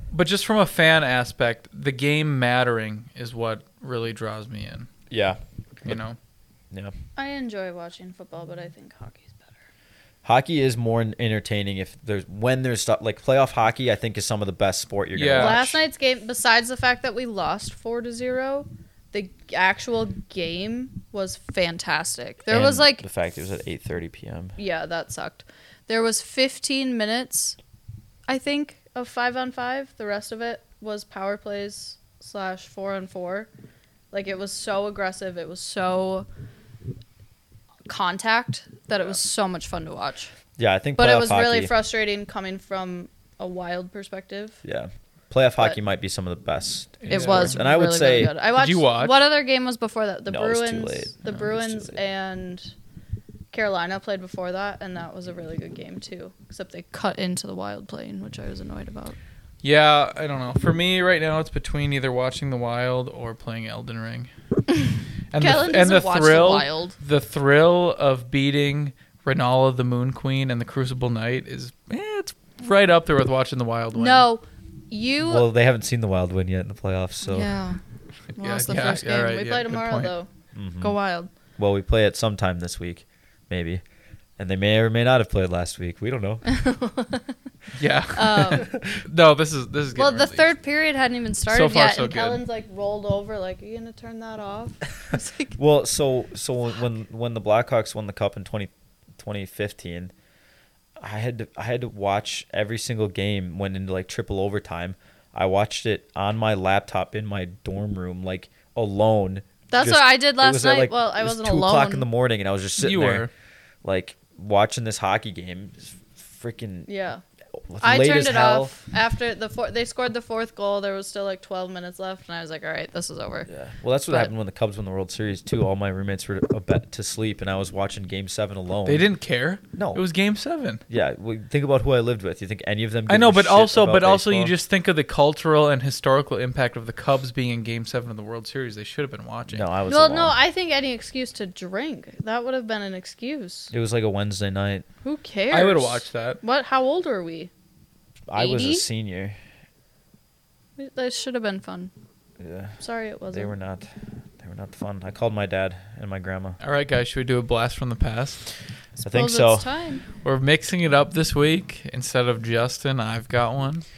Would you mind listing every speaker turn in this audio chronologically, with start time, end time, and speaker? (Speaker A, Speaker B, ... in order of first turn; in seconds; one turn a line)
Speaker A: 0.1-4.9
Speaker B: 5.1-6.0
Speaker A: 5.8-6.2
Speaker C: 7.2-9.6
Speaker B: 10.2-15.8
Speaker A: 15.2-15.7
Speaker C: 15.4-23.0
Speaker B: 22.5-24.6
Speaker C: 24.6-27.6
Speaker C: 28.3-33.5
Speaker C: 34.1-36.3
Speaker C: 37.9-40.3
Speaker B: 40.6-41.7
Speaker C: 41.0-44.6
Speaker B: 44.6-48.3
Speaker A: 47.0-47.6
Speaker C: 47.1-52.7
Speaker A: 48.5-49.2
Speaker B: 50.3-52.0
Speaker C: 53.5-59.2
Speaker A: 59.6-64.3
Speaker A: 65.3-74.2
Speaker C: 65.4-67.0
Speaker C: 73.9-75.5
Speaker B: 75.3-77.5
Speaker C: 77.2-77.8
Speaker C: 78.4-80.3
Speaker A: 78.4-80.1
Speaker B: 80.5-81.0
Speaker C: 80.8-81.3
Speaker B: 81.6-83.8
Speaker B: 84.4-86.4
Speaker C: 86.5-87.3
Speaker A: 87.8-90.5
Speaker C: 88.1-88.7
Speaker B: 88.7-89.0
Speaker C: 90.0-95.6
Speaker A: 91.5-92.4
Speaker B: 95.6-100.1
Speaker B: 101.0-113.3
Speaker C: 109.7-112.1
Speaker A: 112.8-113.3
Speaker B: 113.8-116.9
Speaker C: 116.9-117.2
Speaker B: 117.7-118.8
Speaker C: 117.8-123.5
Speaker B: 123.5-129.1
Speaker A: 128.9-130.8
Speaker B: 129.8-130.0
Speaker B: 130.9-134.5
Speaker A: 133.1-139.7
Speaker B: 139.5-140.3
Speaker C: 139.9-143.7
Speaker B: 143.7-144.9
Speaker C: 145.0-147.5
Speaker A: 145.5-146.4
Speaker B: 148.3-149.4
Speaker C: 148.4-148.9
Speaker C: 150.8-151.9
Speaker B: 152.4-152.8
Speaker C: 152.8-153.5
Speaker B: 153.3-153.9
Speaker B: 154.4-156.6
Speaker A: 156.6-158.4
Speaker B: 159.0-159.7
Speaker C: 159.1-160.1
Speaker A: 160.2-163.8